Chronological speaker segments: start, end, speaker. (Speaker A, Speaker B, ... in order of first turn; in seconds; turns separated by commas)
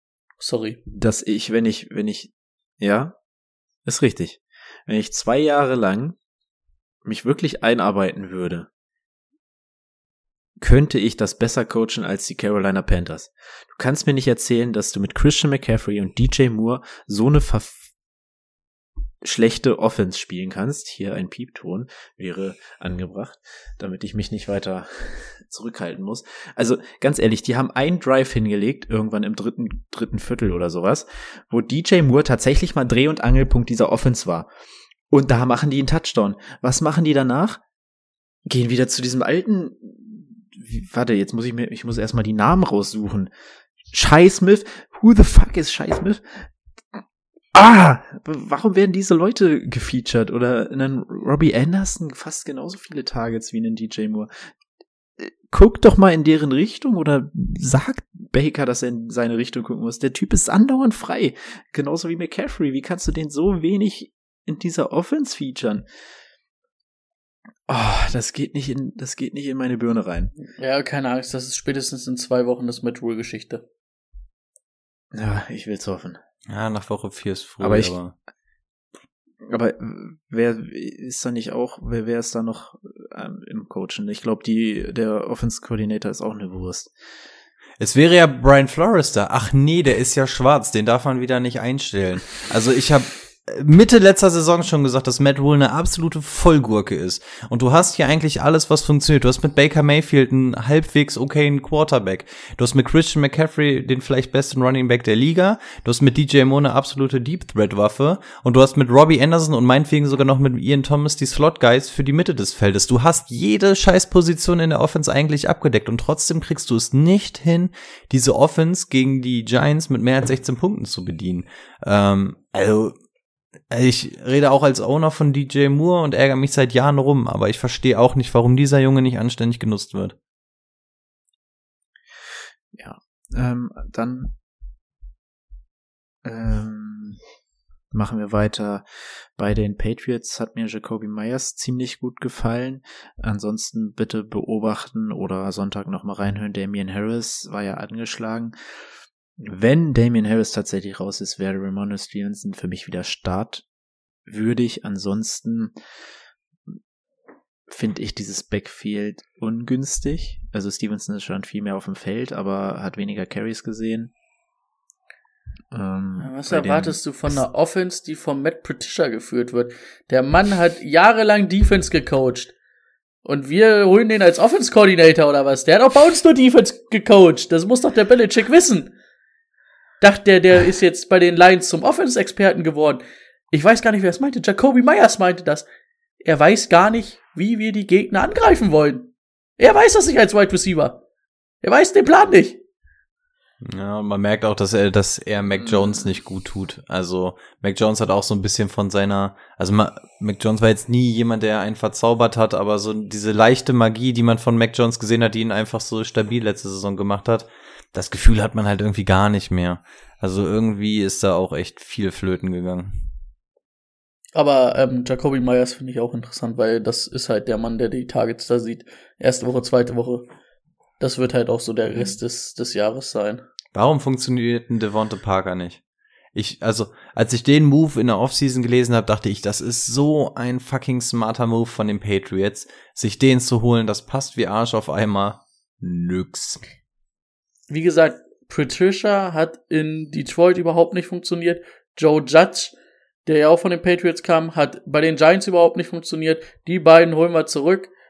Speaker A: 0.4-0.8, Speaker B: 0.9-3.1, Speaker B: 3.9-6.2, Speaker B: 7.0-8.7, Speaker B: 10.6-17.8, Speaker B: 19.2-34.5, Speaker B: 35.1-37.6, Speaker B: 38.5-43.3, Speaker B: 43.9-47.0, Speaker B: 47.5-54.5, Speaker B: 55.2-65.9, Speaker B: 67.7-70.3, Speaker A: 70.5-73.6, Speaker B: 75.1-76.2, Speaker C: 76.5-78.1, Speaker B: 77.6-77.9, Speaker B: 79.4-86.9, Speaker C: 87.8-122.9, Speaker C: 123.7-130.1, Speaker B: 132.7-134.3, Speaker B: 136.2-137.2, Speaker B: 137.9-148.5, Speaker B: 149.4-153.6, Speaker B: 154.3-155.7, Speaker B: 157.7-164.1, Speaker B: 165.7-167.4, Speaker A: 166.2-172.5, Speaker A: 173.2-178.9, Speaker A: 180.0-185.7, Speaker A: 186.2-191.0, Speaker A: 191.6-192.6, Speaker C: 193.6-213.1, Speaker A: 214.3-220.3, Speaker A: 221.0-223.4, Speaker C: 223.7-225.8, Speaker C: 226.3-236.6, Speaker A: 237.7-242.7, Speaker A: 243.2-247.9